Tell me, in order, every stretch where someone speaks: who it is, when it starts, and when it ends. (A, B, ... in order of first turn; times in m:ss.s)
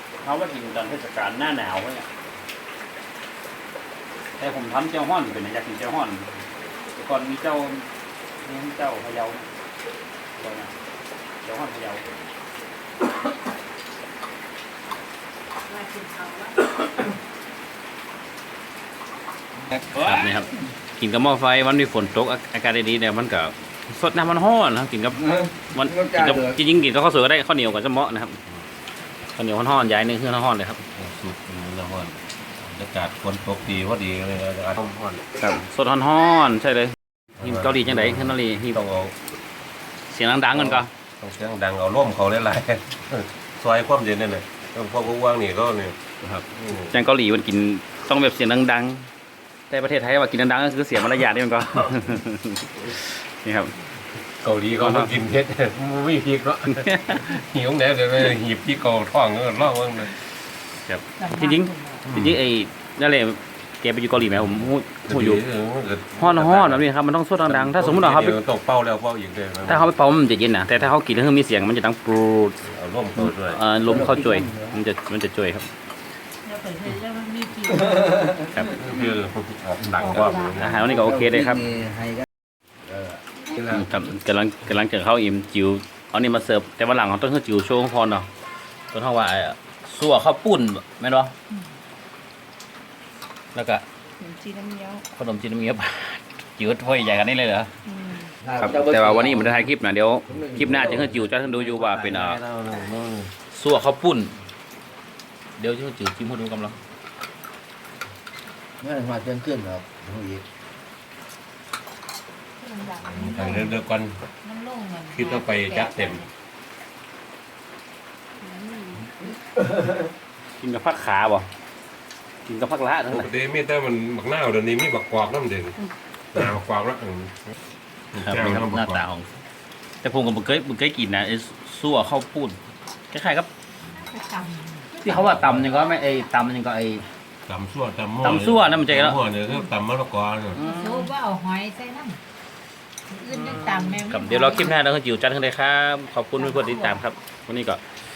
0:00.2-0:02.1 A
0:04.4-0:06.4 A
0:06.9-0:07.9 A
0:08.4-0:09.5 A
0:10.4-0:10.7 A
0:11.4-0:12.0 A
0:15.7-0:16.6 B
0:19.8-0:20.4 C
0:19.9-0:28.4 A
0:25.4-0:26.6 C
0:29.4-0:30.8 A
0:31.0-0:35.2 D
0:35.4-0:38.8 A
0:37.4-0:39.2 D
0:40.1-0:40.9 A
0:40.5-0:46.0 D
0:46.2-0:49.1 A
0:46.5-0:46.9 D
0:49.7-0:53.8 A
0:54.4-1:00.1 D
0:54.8-0:55.1 A
0:56.8-0:57.3 A
1:00.9-1:05.4 A
1:01.2-1:02.0 B
1:02.0-1:02.4 D
1:05.1-1:06.9 D
1:06.2-1:08.4 A
1:07.4-1:09.9 D
1:09.7-1:12.6 A
1:12.6-1:13.6 D
1:13.2-1:15.7 A
1:13.9-1:14.8 C
1:16.4-1:18.3 B
1:18.3-1:18.8 A
1:18.6-1:20.9 D
1:20.0-1:20.3 B
1:20.5-1:21.7 A
1:20.7-1:22.2 C
1:22.8-1:23.2 C
1:23.6-1:28.3 A
1:28.9-1:31.3 A
1:33.6-1:33.8 A
1:34.2-1:35.0 B
1:35.0-1:42.4 A
1:38.4-1:39.7 C
1:40.3-1:42.1 C
1:42.0-1:43.3 D
1:43.5-1:44.4 A
1:45.6-1:46.8 A
1:48.8-1:50.4 C
1:52.6-1:53.5 B
1:53.0-1:54.3 D
1:54.4-1:56.2 B
1:55.0-1:56.3 D
1:58.4-1:59.0 B
2:00.6-2:01.5 A
2:02.5-2:03.3 A
2:03.1-2:05.8 D
2:06.3-2:07.5 D
2:08.1-2:09.1 D
2:08.2-2:09.4 A
2:10.0-2:12.6 A
2:13.1-2:13.5 A
2:14.0-2:15.3 B
2:14.9-2:17.1 A
2:15.4-2:15.6 D
2:17.5-2:20.7 D
2:18.2-2:19.2 A
2:20.5-2:21.1 A
2:20.6-2:22.2 B
2:23.2-2:24.5 B
2:23.3-2:27.8 A